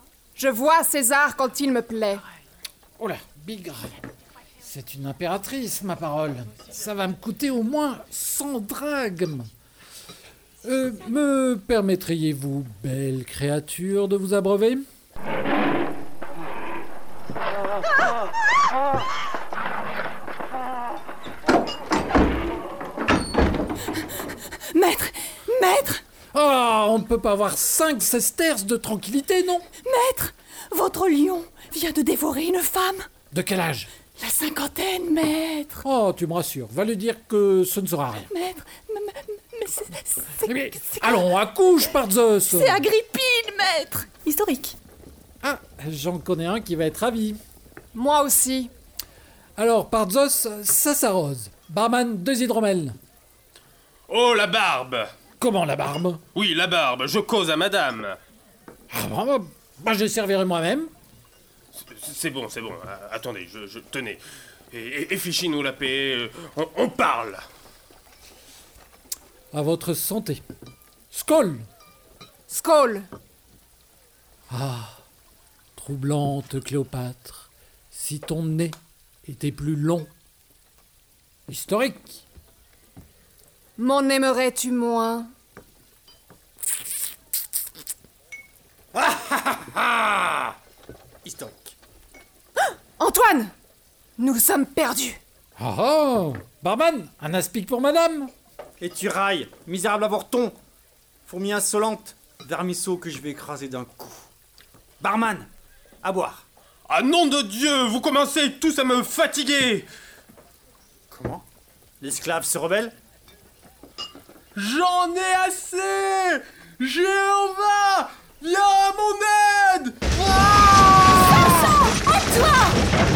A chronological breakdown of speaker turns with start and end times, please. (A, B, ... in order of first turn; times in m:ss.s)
0:00.3-0:02.2 A
0:03.0-0:03.9 B
0:04.6-0:09.5 B
0:10.6-0:14.8 B
0:24.7-0:26.0 C
0:26.3-0:29.6 B
0:29.8-0:33.1 C
0:33.3-0:33.9 B
0:34.2-0:35.8 C
0:35.8-0:38.3 B
0:38.3-0:41.0 C
0:40.4-0:42.8 B
0:42.5-0:44.8 C
0:45.4-0:47.4 B
0:47.9-0:48.7 A
0:49.6-0:53.0 B
0:54.1-0:55.1 D
0:55.4-0:56.2 B
0:56.3-0:58.2 D
0:58.9-1:00.9 B
1:01.9-1:04.2 D
1:04.7-1:07.4 D
1:09.5-1:10.4 B
1:11.1-1:11.6 B
1:12.5-1:13.1 A
1:14.5-1:15.0 B
1:15.7-1:20.1 B
1:21.5-1:22.2 B
1:23.8-1:25.3 A
1:28.9-1:30.5 E
1:31.2-1:31.7 E
1:32.8-1:33.5 A
1:34.2-1:35.2 A
1:35.6-1:38.3 B
1:38.8-1:40.6 E
1:41.2-1:44.3 E
1:45.0-1:45.5 E
1:46.0-1:46.4 E
1:46.9-1:49.9 D
1:51.1-1:51.4 E
1:52.0-1:52.9 E
1:54.6-2:01.7 D